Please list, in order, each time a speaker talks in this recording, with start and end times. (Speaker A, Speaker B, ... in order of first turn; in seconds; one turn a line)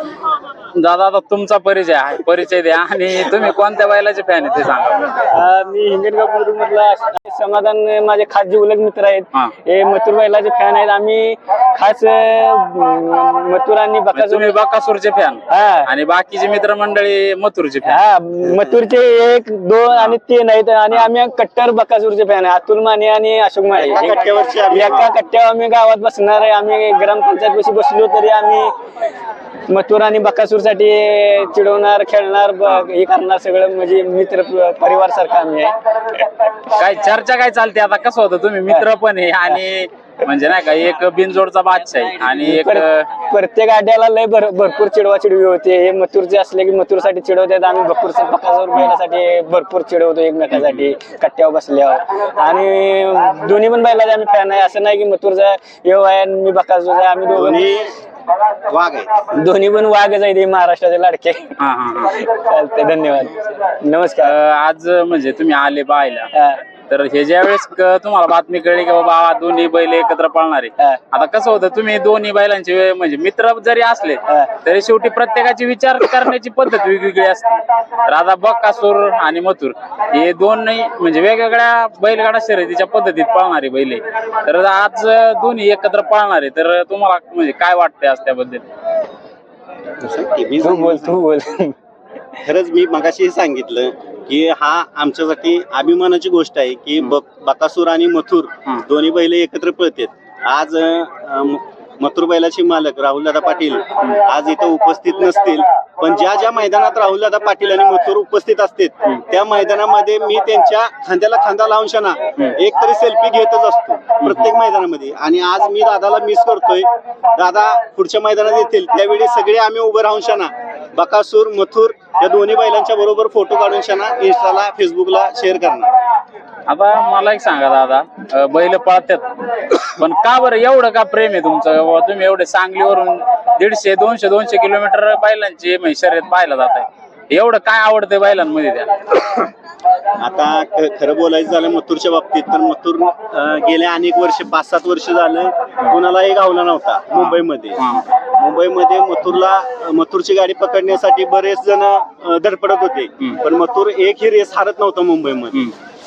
Speaker A: 0.8-5.3
Speaker B: 5.3-14.6
Speaker A: 14.1-18.0
Speaker B: 15.5-15.9
Speaker B: 17.9-28.7
Speaker C: 23.8-25.1
Speaker B: 29.7-36.5
Speaker A: 36.7-43.1
Speaker B: 42.4-57.7
Speaker A: 50.5-50.9
Speaker C: 57.3-58.0
Speaker C: 58.7-59.3
Speaker B: 59.3-64.3
Speaker A: 61.6-62.2
Speaker A: 64.2-66.3
Speaker B: 66.3-66.6
Speaker A: 66.9-88.6
Speaker C: 90.0-91.1
Speaker B: 90.6-91.8
Speaker C: 92.4-125.9
Speaker A: 114.2-114.5
Speaker A: 126.7-139.4
Speaker C: 140.2-147.8
Speaker A: 147.2-148.0
Speaker C: 148.4-155.7